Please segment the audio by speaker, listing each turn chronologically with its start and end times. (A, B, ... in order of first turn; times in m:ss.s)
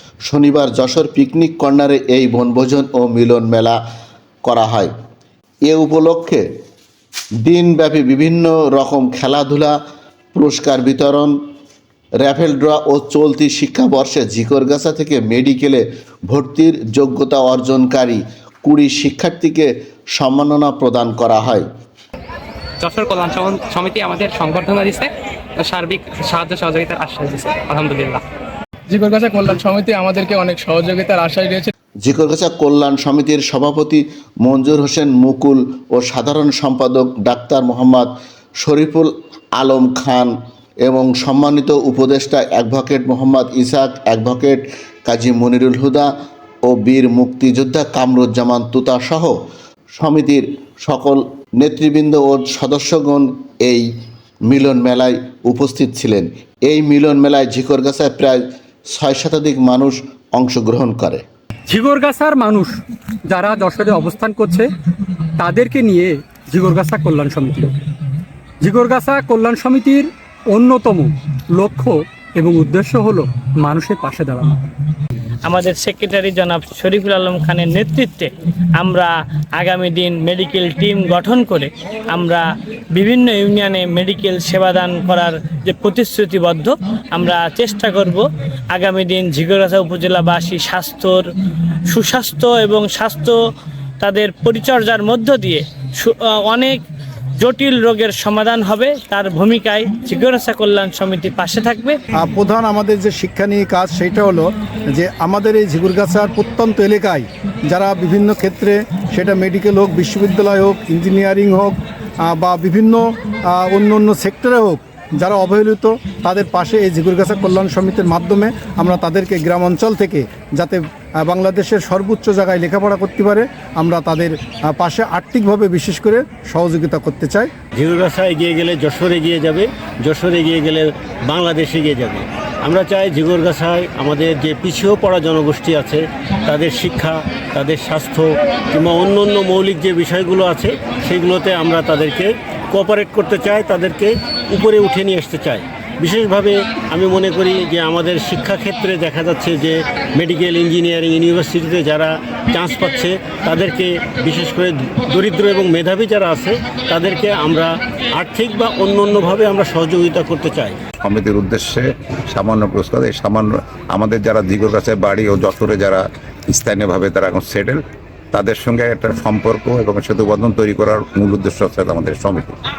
0:00.3-0:03.8 A
0:04.4-0:04.9 A
0:05.6-0:06.4 A
0:07.4-0:09.8 A
0:10.3-0:11.4 A
0:12.2-0:21.6 A
0:22.8-0:28.2 B
0:28.9-0:31.7 C
0:32.0-0:38.1 A
0:38.6-0:46.1 A
0:46.6-0:49.4 A
0:50.0-0:53.9 A
0:54.5-1:01.2 A
1:01.7-1:04.7 D
1:05.4-1:07.7 D
1:08.6-1:14.6 D
1:15.4-1:31.3 E
1:31.9-1:33.4 E
1:34.0-1:36.8 E
1:37.4-1:42.0 E
1:42.2-1:51.7 F
1:52.3-1:53.0 F
1:53.6-2:07.5 F
2:07.8-2:40.8 G
2:41.0-2:47.8 H
2:48.3-2:52.6 H